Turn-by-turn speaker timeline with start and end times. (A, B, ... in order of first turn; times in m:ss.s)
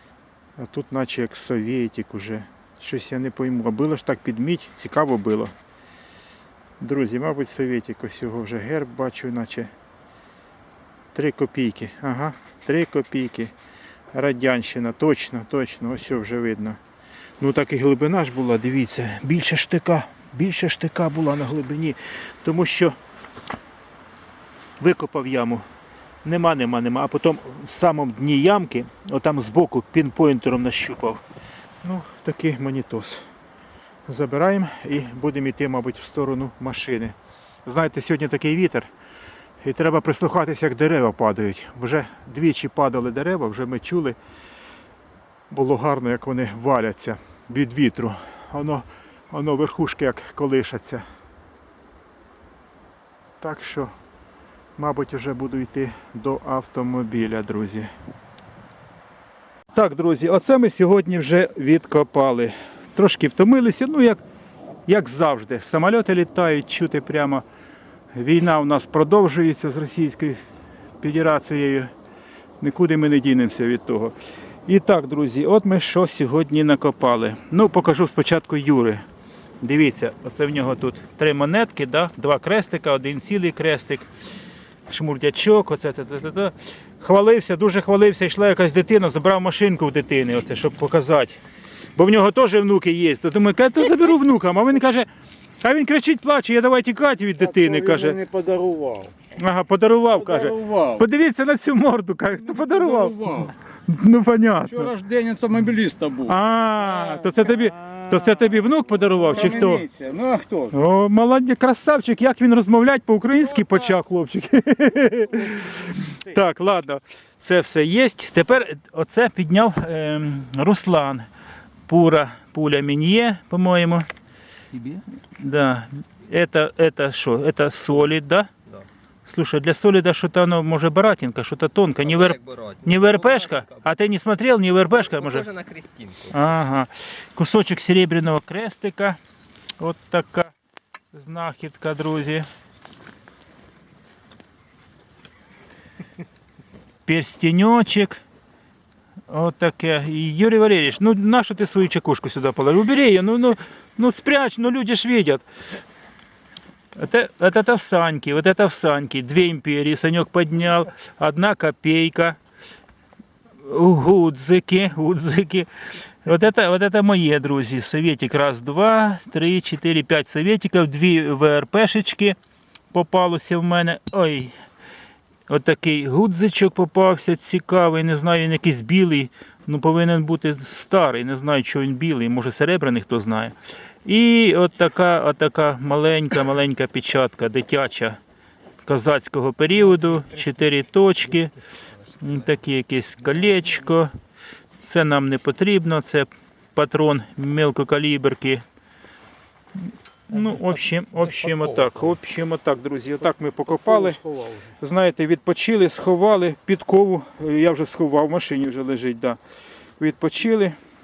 0:00.6-0:05.5 A
0:06.8-0:09.7 A
0:11.1-0:13.5 A
0:14.1-0:16.8 A
0:17.4-0:23.0 A
0:24.8-0:25.6 A
0:26.2-0:31.2 A
0:31.8-0:33.2 A
0:34.0-0:37.1 A
0:37.6-0:38.9 A
0:39.6-0:44.2 A
0:45.5-0:51.0 A
0:53.4-0:53.9 A
0:54.8-0:57.9 A
0:59.7-1:04.2 A
1:04.8-1:07.4 A
1:08.1-1:10.4 A
1:11.0-1:11.9 A
1:12.6-1:19.0 A
1:19.6-1:24.1 A
1:24.9-1:31.4 A
1:32.0-1:35.1 A
1:35.6-1:38.2 A
1:38.2-1:39.1 B
1:39.3-1:45.0 A
1:44.9-1:46.2 B
1:46.1-1:49.9 A
1:49.9-1:50.7 B
1:50.7-2:01.3 A
2:01.9-2:04.1 A
2:04.7-2:08.5 A
2:09.2-2:15.5 A
2:12.0-2:13.9 C
2:15.0-2:16.4 C
2:16.3-2:19.2 A
2:19.8-2:20.5 A
2:21.1-2:22.4 A
2:27.0-2:28.2 A
2:29.3-2:35.4 A
2:36.9-2:42.4 A
2:43.6-2:52.4 A
2:52.9-2:54.5 A
2:55.5-3:08.2 A
3:08.8-3:11.6 A
3:12.1-3:14.1 A
3:14.8-3:18.6 A
3:20.3-3:29.4 A
3:30.0-3:30.8 A